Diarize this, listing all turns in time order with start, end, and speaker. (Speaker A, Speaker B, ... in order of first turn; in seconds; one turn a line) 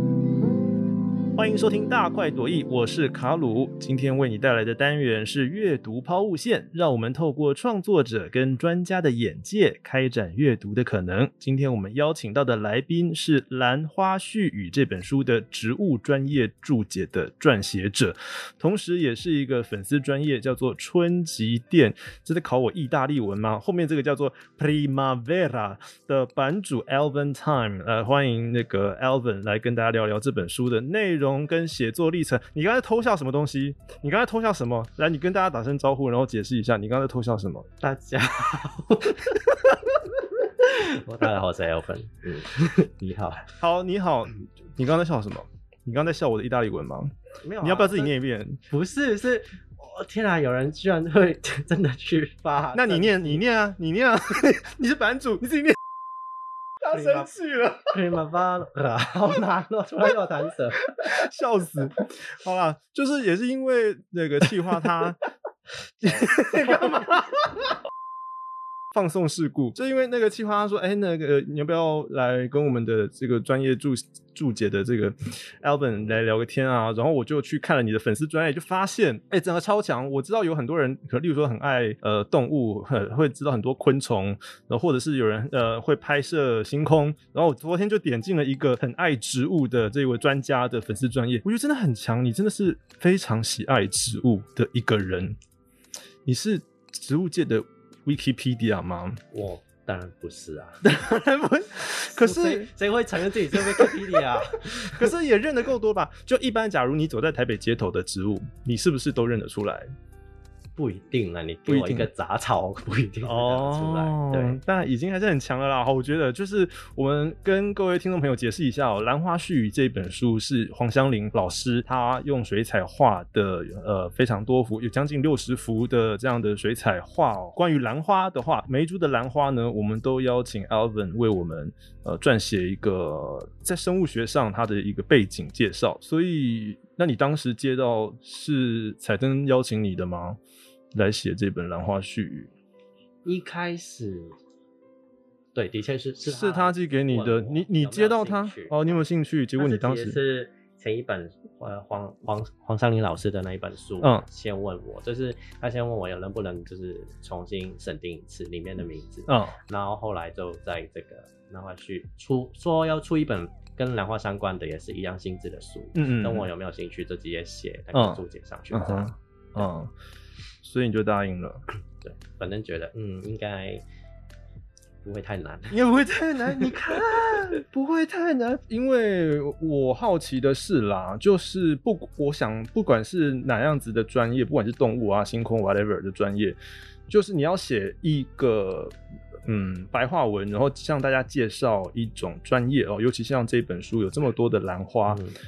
Speaker A: 1.4-37.7
Speaker B: 37.8-39.4
Speaker B: 40.6-43.5
Speaker A: 43.6-48.6
Speaker B: 47.4-48.1
Speaker B: 48.7-53.4
Speaker A: 52.7-55.8
Speaker A: 56.8-57.9
Speaker B: 56.9-57.3
Speaker B: 57.9-60.9
Speaker A: 61.0-65.2
Speaker A: 66.0-67.7
Speaker A: 68.9-95.4
Speaker A: 96.3-99.2
Speaker B: 99.3-105.1
Speaker A: 100.9-102.7
Speaker A: 103.5-109.9
Speaker B: 110.8-114.6
Speaker A: 111.7-112.1
Speaker A: 113.2-140.4
Speaker A: 140.9-142.5
Speaker B: 143.2-144.3
Speaker B: 145.6-149.0
Speaker A: 146.2-150.2
Speaker B: 149.6-169.7
Speaker A: 159.3-159.6
Speaker A: 165.9-166.5
Speaker A: 167.9-169.9
Speaker A: 170.6-171.6
Speaker B: 172.0-173.8
Speaker B: 175.0-175.8
Speaker A: 175.7-195.2
Speaker B: 195.1-195.4